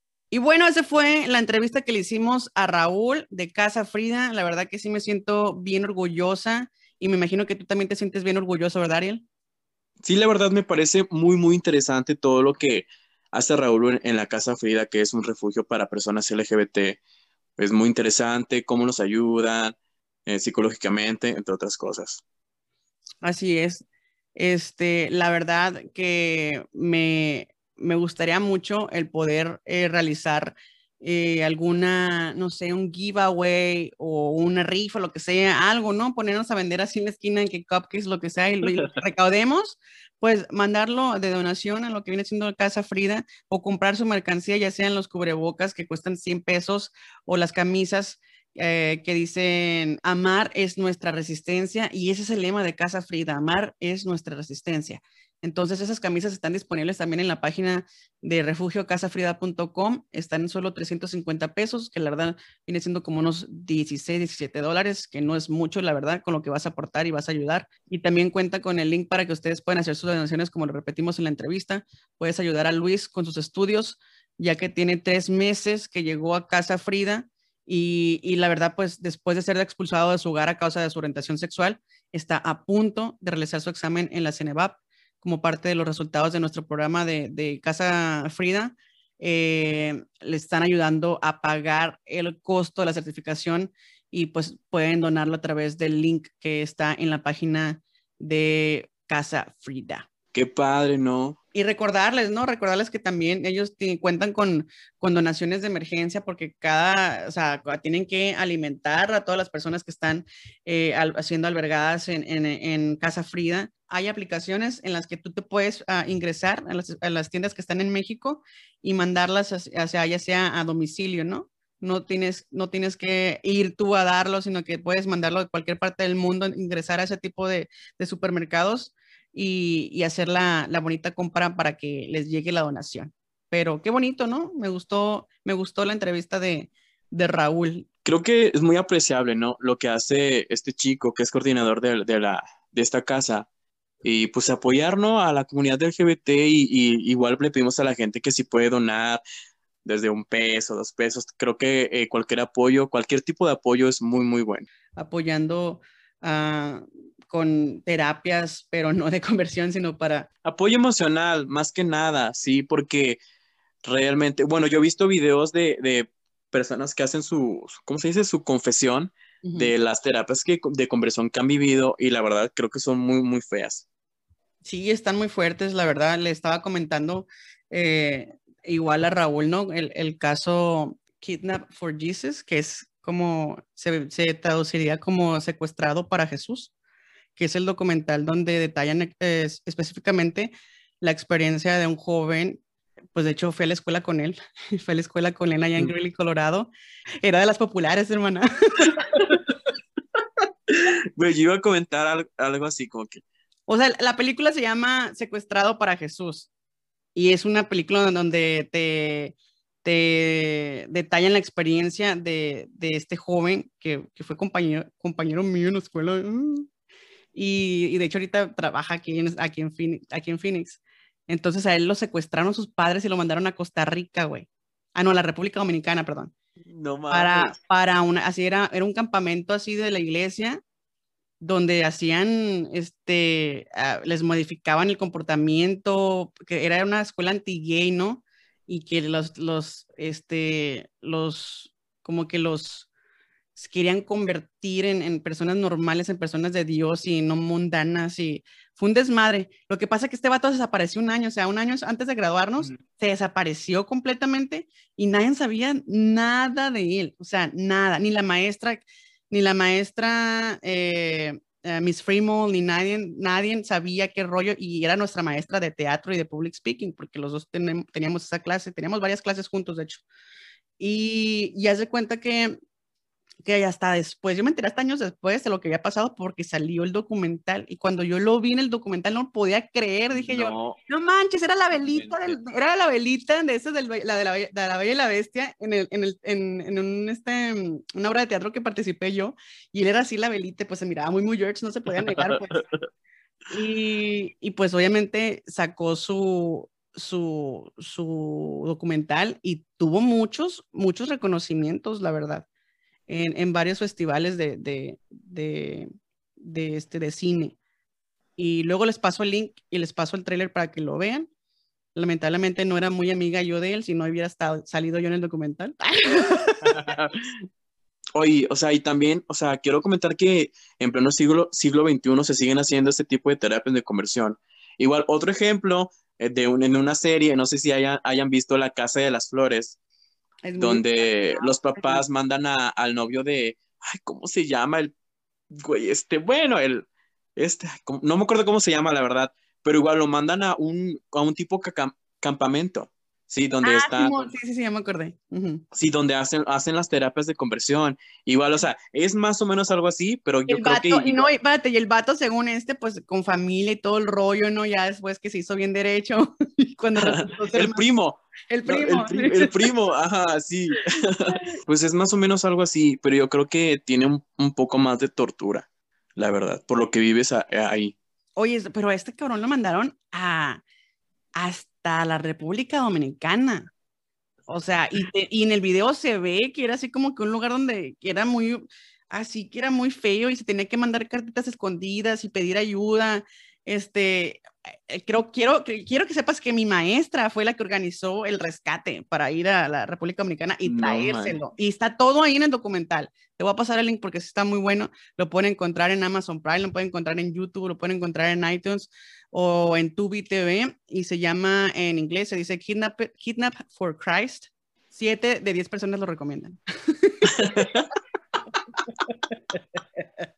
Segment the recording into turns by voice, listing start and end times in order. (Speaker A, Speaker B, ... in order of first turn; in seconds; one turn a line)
Speaker A: 0.3-9.2
Speaker B: 10.0-17.0
Speaker B: 17.6-22.2
Speaker A: 23.2-23.8
Speaker A: 24.4-100.0
Speaker B: 100.3-101.4
Speaker A: 101.5-137.9
Speaker B: 138.1-143.5
Speaker B: 144.0-149.2
Speaker B: 149.8-154.7
Speaker A: 154.9-160.3
Speaker B: 160.4-163.2
Speaker B: 163.8-173.8
Speaker A: 169.4-169.7
Speaker A: 174.6-186.7
Speaker A: 187.4-192.6
Speaker A: 193.1-196.7
Speaker A: 197.2-199.4
Speaker B: 200.7-203.2
Speaker A: 203.7-206.5
Speaker A: 207.1-216.7
Speaker A: 217.3-226.3
Speaker B: 226.7-227.6
Speaker A: 227.1-230.6
Speaker A: 231.4-242.9
Speaker A: 243.6-270.0
Speaker A: 270.8-272.6
Speaker A: 273.4-292.5
Speaker B: 280.1-280.8
Speaker B: 281.9-282.4
Speaker B: 292.4-292.8
Speaker A: 293.5-302.4
Speaker A: 303.1-307.6
Speaker A: 308.4-311.3
Speaker A: 311.9-316.9
Speaker B: 316.7-317.3
Speaker B: 318.1-329.8
Speaker A: 330.4-332.0
Speaker B: 330.6-334.9
Speaker B: 335.5-344.3
Speaker A: 343.6-345.6
Speaker B: 345.7-351.3
Speaker A: 350.5-357.8
Speaker B: 357.0-367.9
Speaker A: 358.5-359.7
Speaker A: 361.3-361.5
Speaker A: 368.4-370.6
Speaker A: 371.4-373.7
Speaker A: 374.5-407.7
Speaker B: 390.6-391.4
Speaker B: 407.3-407.9
Speaker A: 409.5-410.0